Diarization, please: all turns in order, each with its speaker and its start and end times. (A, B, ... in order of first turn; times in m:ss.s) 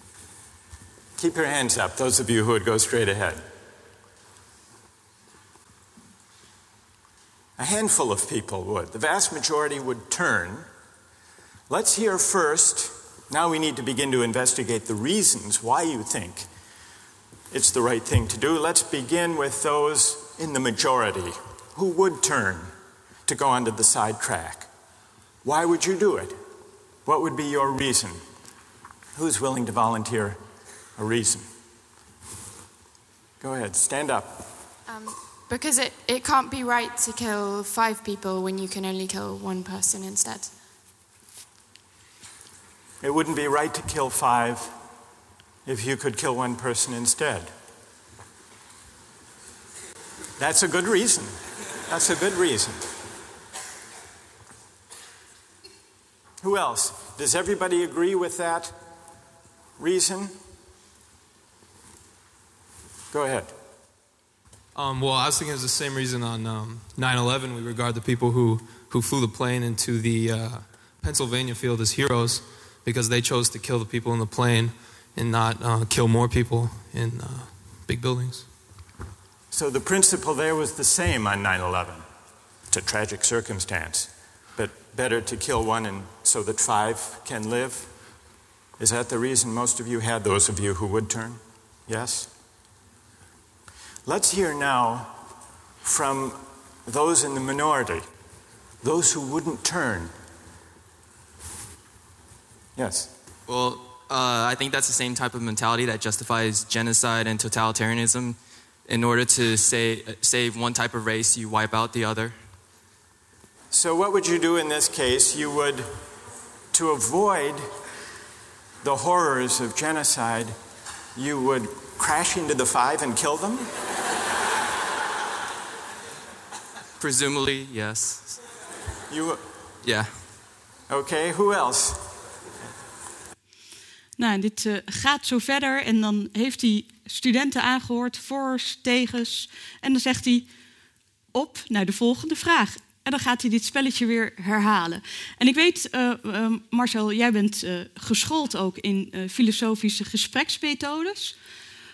0:01.2-0:03.5 A
0:07.6-0:10.7 A
0:11.7-0:16.5 A
0:17.5-0:22.7 A
0:23.3-0:24.7 A
0:25.4-0:26.4 A
0:27.0-0:28.2 A
0:29.2-0:30.4 A
0:31.0-0:31.5 A
0:33.4-0:34.6 A
0:34.9-0:40.5 B
0:43.0-0:44.8 A
0:45.6-0:47.5 A
0:50.4-0:52.9 A
0:56.4-0:58.8 A
0:59.8-1:00.4 A
1:03.1-1:03.5 A
1:04.8-1:18.5 C
1:19.5-1:22.0 A
1:22.7-1:27.9 A
1:28.8-1:32.3 A
1:34.0-1:35.2 A
1:35.8-1:38.1 A
1:38.8-1:40.1 A
1:42.8-1:43.1 A
1:43.5-1:52.4 D
1:53.7-1:56.0 A
1:56.7-1:57.7 A
1:58.8-2:00.6 A
2:01.2-2:03.7 A
2:07.0-2:08.4 D
2:09.1-2:09.4 A
2:09.8-2:10.2 D
2:10.9-2:12.1 A
2:14.2-2:20.5 E
2:21.3-2:31.4 E